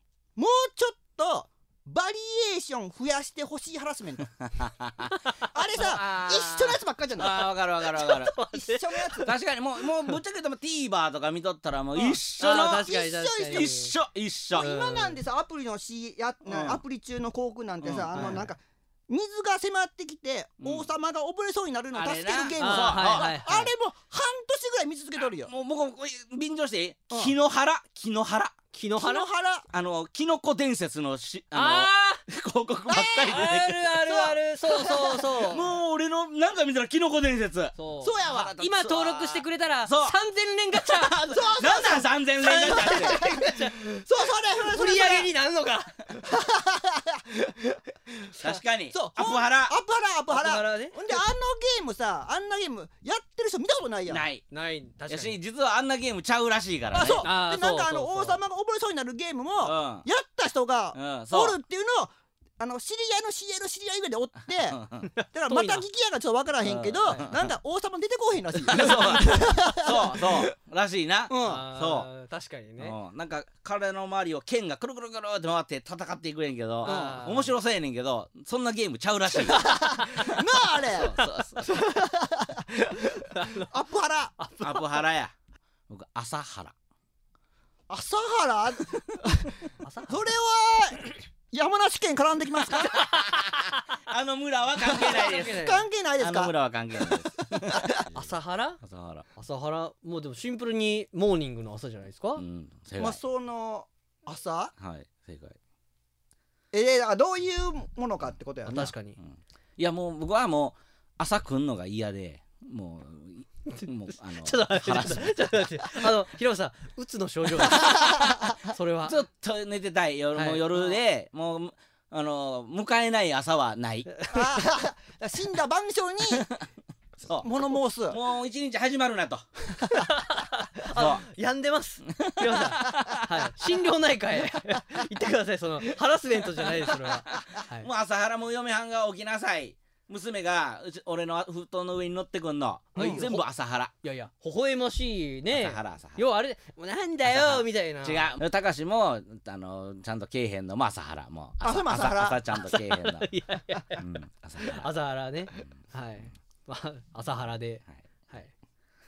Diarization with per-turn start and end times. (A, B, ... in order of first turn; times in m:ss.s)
0:00.4-0:04.3 A
0:04.6-0:05.1 B
0:05.5-0:07.4 A
0:05.7-0:08.4 B
0:07.2-0:09.3 C
0:08.5-0:09.3 A
0:09.2-0:12.9 B
0:12.0-0:13.9 C
0:12.5-0:13.7 A
0:13.5-0:14.7 B
0:14.5-0:25.5 A
0:14.6-0:15.2 C
0:16.4-0:16.8 B
0:17.8-0:18.4 B
0:18.1-0:18.4 C
0:20.6-0:20.9 B
0:21.9-0:23.3 B
0:22.6-0:23.7 C
0:25.2-0:28.5 B
0:28.7-0:29.3 C
0:29.0-0:29.7 A
0:29.7-0:34.0 B
0:31.5-0:32.2 C
0:32.9-0:33.5 A
0:33.2-0:35.8 C
0:34.0-0:35.2 A
0:35.4-0:40.2 B
0:37.7-0:41.5 C
0:38.0-0:38.8 A
0:40.7-0:43.2 B
0:41.3-0:45.3 A
0:42.4-0:43.9 C
0:44.6-0:46.0 C
0:46.2-0:48.4 A
0:48.4-0:49.7 B
0:49.0-0:54.2 A
0:50.3-0:51.0 C
0:54.1-0:54.4 B
0:54.5-0:55.4 C
0:55.1-0:57.3 B
0:56.9-1:04.8 A
0:57.2-0:58.4 C
0:59.6-1:00.1 B
1:00.9-1:01.6 B
1:04.7-1:05.1 B
1:05.1-1:05.8 C
1:05.3-1:10.4 A
1:06.6-1:07.5 B
1:07.1-1:07.3 C
1:08.6-1:12.1 B
1:11.3-1:11.7 A
1:11.4-1:13.0 C
1:12.8-1:19.6 B
1:16.8-1:17.5 C
1:16.8-1:17.2 A
1:19.3-1:21.1 A
1:19.8-1:20.3 C
1:20.2-1:21.7 B
1:21.0-1:21.3 C
1:21.6-1:24.4 A
1:23.3-1:23.6 C
1:24.4-1:25.0 C
1:24.6-1:25.3 B
1:25.9-1:26.7 B
1:27.9-1:33.0 A
1:29.8-1:30.2 C
1:32.7-1:35.6 B
1:34.8-1:36.5 A
1:35.1-1:35.8 C
1:36.2-1:39.2 B
1:37.0-1:37.9 A
1:38.1-1:38.8 C
1:39.3-1:42.4 C
1:42.4-1:43.2 B
1:43.0-1:44.7 A
1:44.8-1:45.6 B
1:46.7-1:48.8 A
1:48.6-1:55.4 B
1:48.7-1:49.2 C
1:53.7-1:59.2 C
1:57.8-1:58.5 A
1:59.0-2:04.1 B
2:00.3-2:01.0 C
2:04.2-2:04.5 C
2:04.3-2:06.5 A
2:07.2-2:09.4 B
2:07.4-2:08.2 A
2:09.9-2:17.9 C
2:10.9-2:11.2 B
2:12.2-2:13.5 B
2:17.3-2:23.9 B
2:22.9-2:23.4 C
2:23.0-2:23.3 A
2:24.0-2:28.4 C
2:25.5-2:26.2 B
2:27.2-2:33.3 B
2:31.6-2:32.4 A
2:32.6-2:34.0 C
2:34.0-2:34.9 B
2:34.6-2:38.5 C